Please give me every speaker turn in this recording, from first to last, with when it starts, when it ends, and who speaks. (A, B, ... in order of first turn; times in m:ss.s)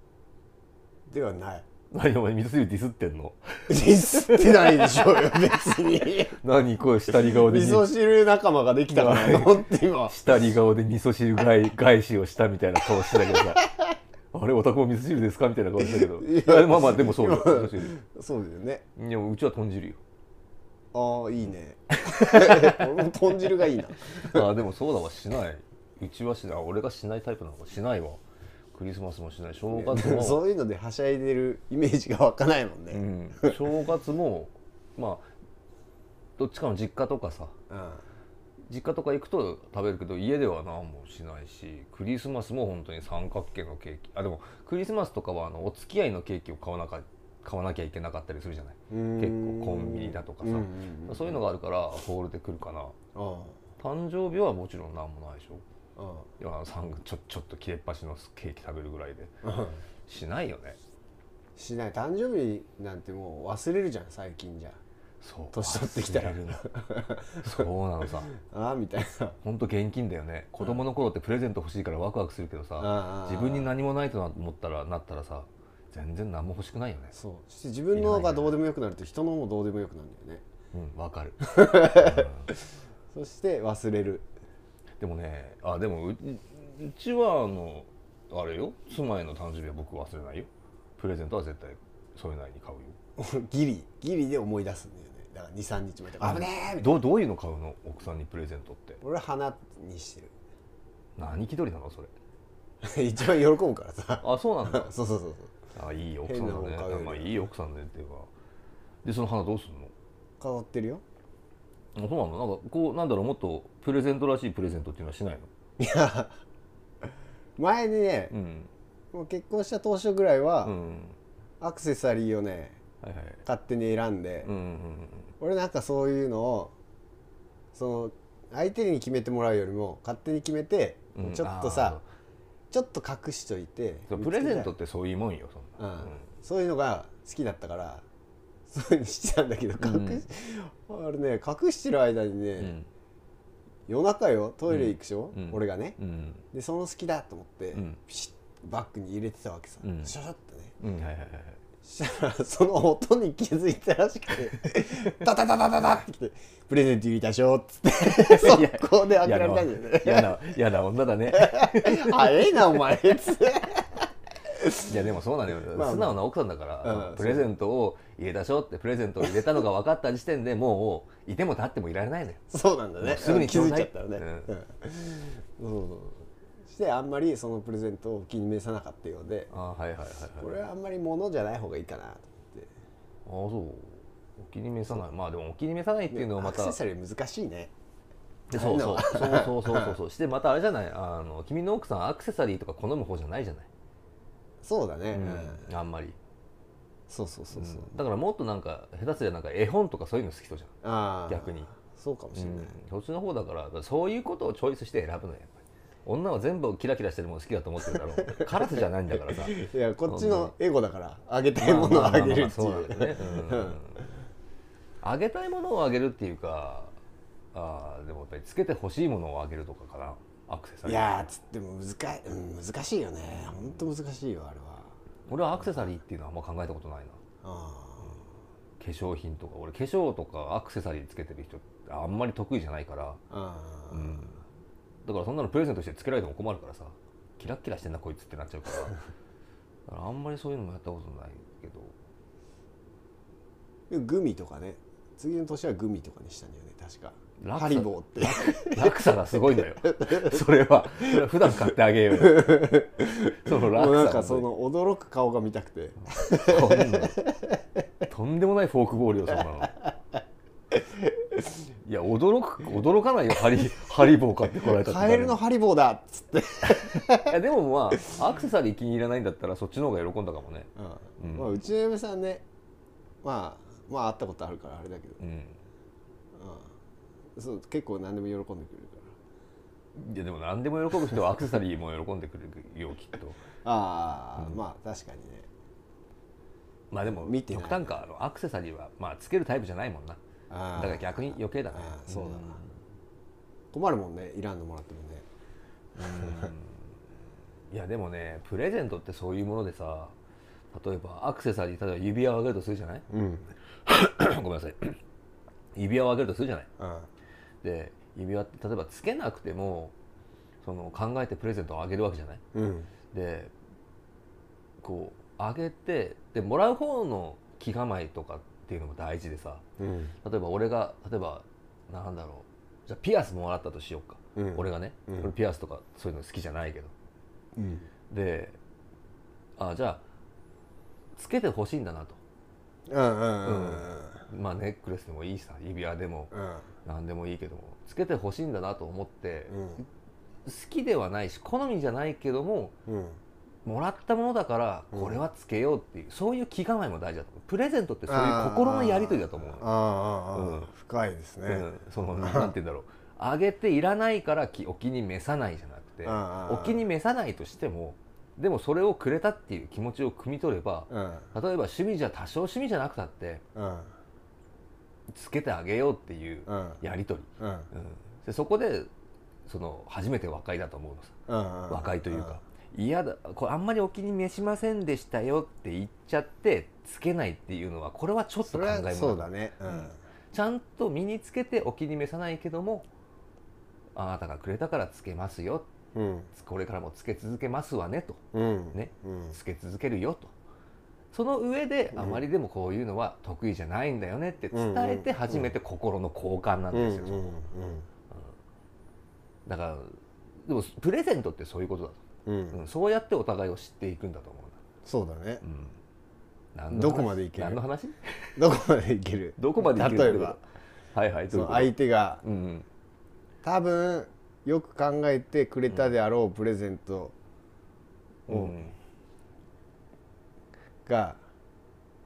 0:01.1-0:01.6 A
0:01.9-0:07.9 B
0:03.7-0:06.4 A
0:07.2-0:10.1 A
0:08.9-0:13.7 B
0:13.4-0:13.6 A
0:14.3-0:18.0 B
0:15.8-0:18.8 A
0:19.0-0:20.0 B
0:20.9-0:24.5 A
0:22.1-0:22.8 B
0:24.0-0:28.2 B
0:28.7-0:30.4 B
0:29.7-0:33.6 A
0:32.9-0:35.3 B
0:36.4-0:37.5 B
0:37.7-0:38.0 A
0:38.7-0:52.9 B
0:48.9-0:51.4 A
0:53.1-0:53.5 A
0:53.8-0:55.6 B
0:56.0-0:56.3 A
0:56.4-0:59.3 B
0:59.4-0:59.8 A
1:00.1-1:00.8 B
1:01.6-1:04.8 A
1:05.2-1:06.7 B
1:05.5-1:07.6 A
1:07.4-1:08.3 B
1:08.3-1:09.4 A
1:09.4-1:17.1 B
1:12.8-1:13.7 A
1:17.1-1:20.4 A
1:17.9-1:18.6 B
1:20.7-1:22.5 B
1:21.4-1:22.3 A
1:23.1-1:24.3 A
1:25.0-1:33.0 B
1:33.2-1:37.0 A
1:36.2-1:39.0 B
1:39.0-1:40.3 A
1:41.2-1:42.1 B
1:42.8-1:45.5 A
1:44.2-1:44.9 B
1:45.7-1:48.3 B
1:46.2-1:47.5 A
1:49.0-1:49.9 B
1:50.4-1:51.0 A
1:51.9-1:55.5 B
1:55.8-1:56.3 A
1:57.6-1:58.3 A
1:58.3-1:58.7 B
1:59.1-2:00.7 A
2:00.6-2:01.2 B
2:01.6-2:02.8 A
2:03.0-2:03.4 B
2:03.4-2:04.5 A
2:04.4-2:05.3 B
2:05.4-2:06.7 A
2:07.7-2:12.0 A
2:11.1-2:12.0 B
2:12.7-2:14.7 A
2:14.1-2:16.2 B
2:15.8-2:18.0 A
2:18.7-2:22.8 A
2:19.8-2:20.2 B
2:22.6-2:22.9 B
2:23.9-2:26.0 A
2:24.7-2:26.4 B
2:26.5-2:30.7 A
2:27.7-2:28.0 B
2:29.8-2:30.1 B
2:30.8-2:31.6 B
2:31.8-2:40.4 A
2:38.0-2:42.5 B
2:41.3-2:44.0 A
2:44.6-2:44.9 A
2:44.8-2:52.4 B
2:45.7-2:46.2 A
2:46.8-2:47.5 A
2:52.5-2:59.5 A
2:53.0-2:54.5 B
2:59.5-3:00.6 B
3:00.4-3:02.7 A
3:03.2-3:06.8 B
3:06.1-3:07.7 A
3:08.5-3:13.7 B
3:08.5-3:10.0 A
3:14.6-3:15.6 A
3:15.1-3:16.2 B
3:17.1-3:18.0 A
3:17.5-3:20.7 B
3:20.8-3:22.8 A
3:21.3-3:21.7 B
3:22.3-3:30.5 B
3:28.2-3:28.5 A
3:29.3-3:33.8 A
3:31.6-3:34.0 B
3:35.0-3:36.9 B
3:37.5-3:41.3 B
3:40.8-3:44.9 A
3:43.3-3:43.8 B
3:45.3-3:47.2 B
3:45.5-3:46.0 A
3:47.4-3:48.2 A
3:48.8-3:53.2 B
3:53.3-3:54.2 A
3:53.9-3:54.4 B
3:55.0-3:59.0 B
3:59.9-4:01.9 B
4:03.9-4:10.2 A
4:07.4-4:14.5 B
4:12.2-4:17.4 A
4:16.3-4:17.2 B
4:18.1-4:19.8 B
4:21.8-4:25.4 B
4:24.6-4:27.4 A
4:26.7-4:31.5 B
4:30.8-4:32.4 A
4:33.2-4:35.2 A
4:35.2-4:35.6 B
4:36.3-4:36.7 A
4:37.4-4:39.1 A
4:39.9-4:43.4 B
4:43.6-4:45.5 A
4:46.9-4:50.2 B
4:47.0-4:48.0 A
4:50.5-4:52.6 A
4:50.7-4:52.7 B
4:53.7-4:55.2 A
4:56.0-4:57.0 B
4:56.0-4:56.5 A
4:57.7-5:00.1 B
5:00.7-5:03.0 B
5:03.1-5:03.5 A
5:03.8-5:05.0 B
5:05.7-5:06.7 B
5:06.8-5:07.1 A
5:07.6-5:09.9 B
5:10.6-5:12.4 B
5:12.5-5:12.9 A
5:13.1-5:13.5 B
5:14.8-5:19.6 B
5:19.8-5:20.1 A
5:20.2-5:26.9 B
5:24.4-5:25.3 A
5:27.6-5:27.9 A
5:28.1-5:28.6 B
5:29.6-5:30.0 B
5:31.1-5:32.2 B
5:32.9-5:34.2 A
5:33.4-5:36.3 B
5:36.3-5:36.7 A
5:36.8-5:39.8 B
5:39.5-5:39.8 A
5:40.4-5:42.7 B
5:42.9-5:43.2 A
5:43.6-5:49.7 B
5:44.9-5:45.2 A
5:48.1-5:52.5 A
5:50.3-5:50.7 B
5:51.4-6:03.4 B
5:56.0-5:56.8 A
6:00.9-6:01.3 A
6:03.5-6:03.9 A
6:05.1-6:08.9 B
6:06.5-6:06.8 A
6:07.4-6:07.7 A
6:09.5-6:11.2 B
6:11.3-6:12.4 A
6:11.7-6:22.8 B
6:18.4-6:20.0 A
6:23.9-6:25.7 B
6:25.9-6:26.3 A
6:26.3-6:28.2 B
6:28.3-6:29.3 A
6:28.7-6:30.3 B
6:31.1-6:37.4 B
6:31.9-6:32.2 A
6:34.5-6:35.5 A
6:36.7-6:37.8 A
6:39.4-6:42.0 B
6:42.2-6:42.6 A
6:42.5-6:44.6 B
6:44.8-6:45.4 A
6:45.4-6:45.8 B
6:46.5-6:48.4 B
6:46.7-6:47.6 A
6:48.4-6:50.4 A
6:49.4-6:50.4 B
6:50.9-6:52.6 B
6:51.3-6:52.2 A
6:53.4-6:57.1 A
6:58.3-6:58.6 A
6:58.3-6:58.7 B
7:00.8-7:01.2 A